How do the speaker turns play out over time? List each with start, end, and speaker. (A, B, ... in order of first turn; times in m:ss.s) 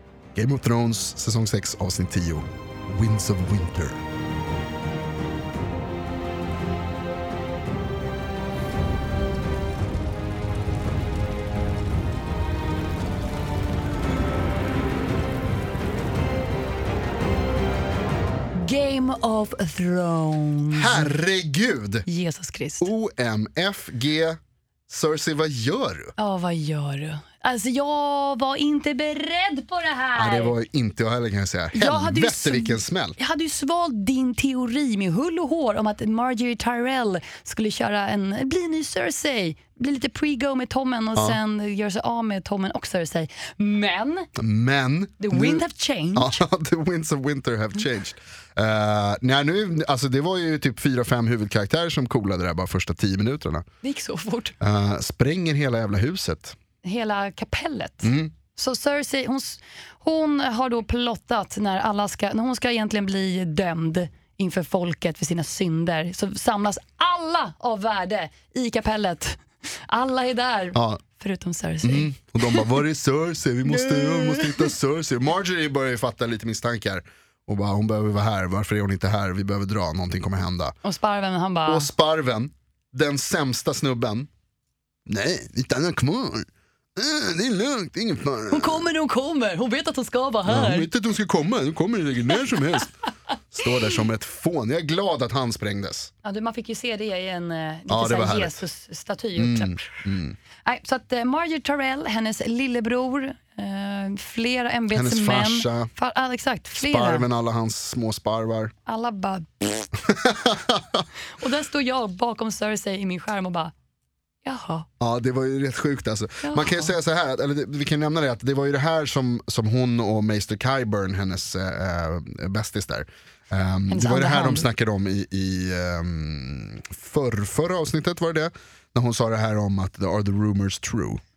0:00.3-0:04.0 A
0:18.5-0:21.1 B
0:20.7-0:22.0 A
0:22.0-0:22.9 B
0:22.8-0:26.1 A
0:26.2-0:30.5 B
0:30.1-0:33.2 A
0:31.7-0:44.3 B
0:44.4-0:45.6 A
0:45.2-0:46.4 B
0:46.2-0:53.6 A
0:53.8-0:54.6 B
0:54.6-0:56.6 A
0:56.8-1:12.7 B
0:58.0-0:58.3 A
1:10.7-1:11.0 A
1:11.8-1:20.8 A
1:13.7-1:14.7 B
1:20.8-1:21.9 B
1:21.7-1:24.3 A
1:25.1-1:28.8 A
1:28.5-1:30.9 B
1:30.4-1:32.9 A
1:33.5-1:36.1 A
1:36.2-1:40.0 B
1:37.9-1:38.6 A
1:39.4-1:40.4 A
1:40.6-1:47.2 B
1:44.9-1:45.9 A
1:46.8-1:48.7 A
1:48.8-1:49.9 B
1:50.0-1:51.0 A
1:51.4-1:53.7 B
1:54.4-1:54.9 B
1:55.0-2:11.2 A
1:56.4-1:56.9 B
2:03.9-2:04.6 B